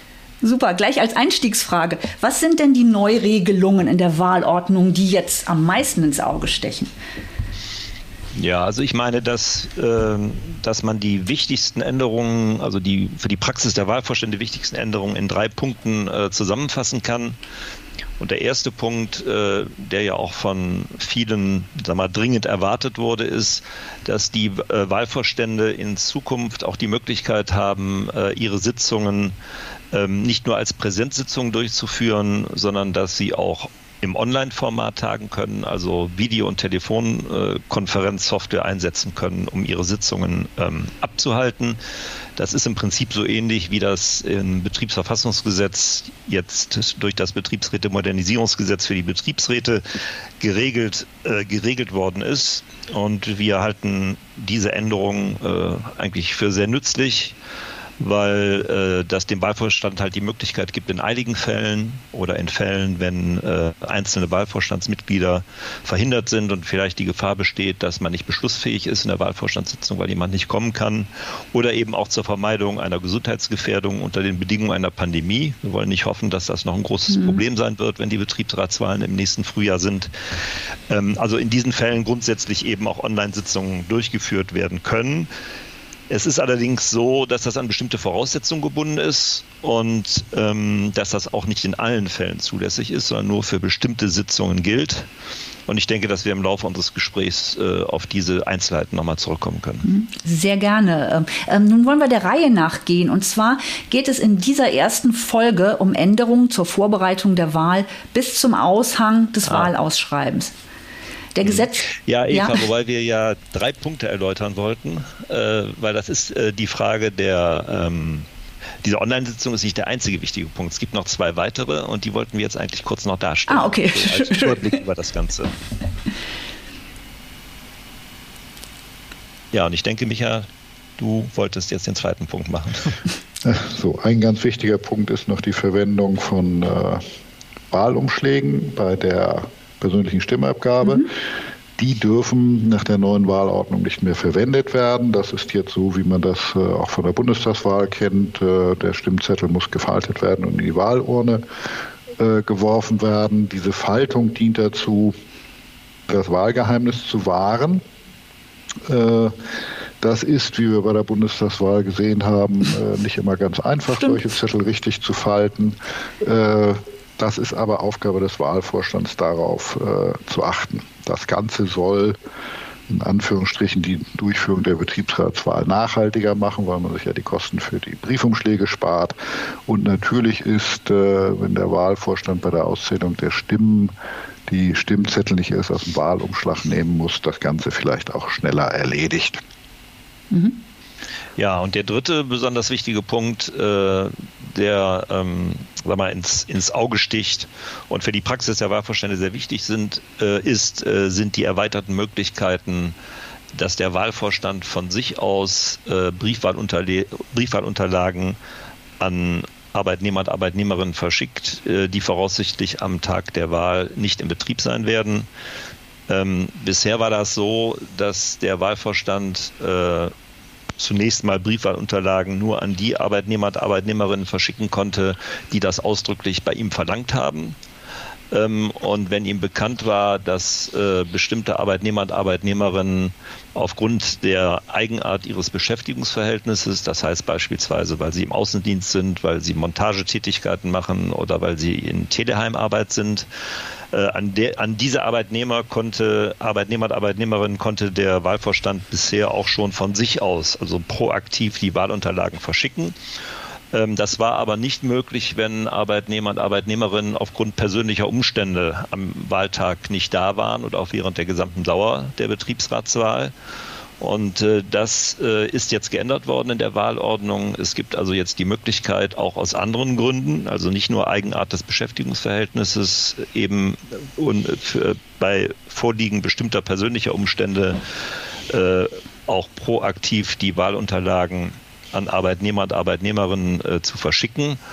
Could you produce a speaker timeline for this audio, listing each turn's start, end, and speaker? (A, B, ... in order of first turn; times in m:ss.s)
0:00.4-0:06.9 A
0:08.3-0:17.4 B
0:18.2-0:29.3 B
0:29.9-0:41.8 B
0:42.4-0:49.8 B
0:50.4-0:57.4 B
0:58.0-1:25.3 B
1:17.1-1:17.4 A
1:26.1-1:35.1 B
1:35.7-1:39.8 B
1:39.8-1:50.5 A
1:49.4-1:49.7 B
1:51.3-1:52.6 A
1:51.4-1:58.3 B
1:58.8-2:05.5 B
2:03.5-2:04.8 A
2:09.5-2:10.5 B
2:11.0-2:13.0 B
2:13.4-2:17.0 C
2:17.7-2:21.2 C
2:21.8-2:35.1 C
2:36.1-2:37.8 C
2:38.9-2:52.2 C
2:52.9-3:03.9 C
3:04.5-3:09.4 C
3:10.3-3:10.6 A
3:11.4-3:22.9 B
3:23.5-3:28.4 B
3:29.0-3:35.3 B
3:36.1-3:40.1 B
3:40.8-3:47.6 B
3:48.3-4:03.3 B
4:03.9-4:12.9 B
4:13.7-4:23.3 B
4:24.0-4:37.8 B
4:38.5-4:44.6 B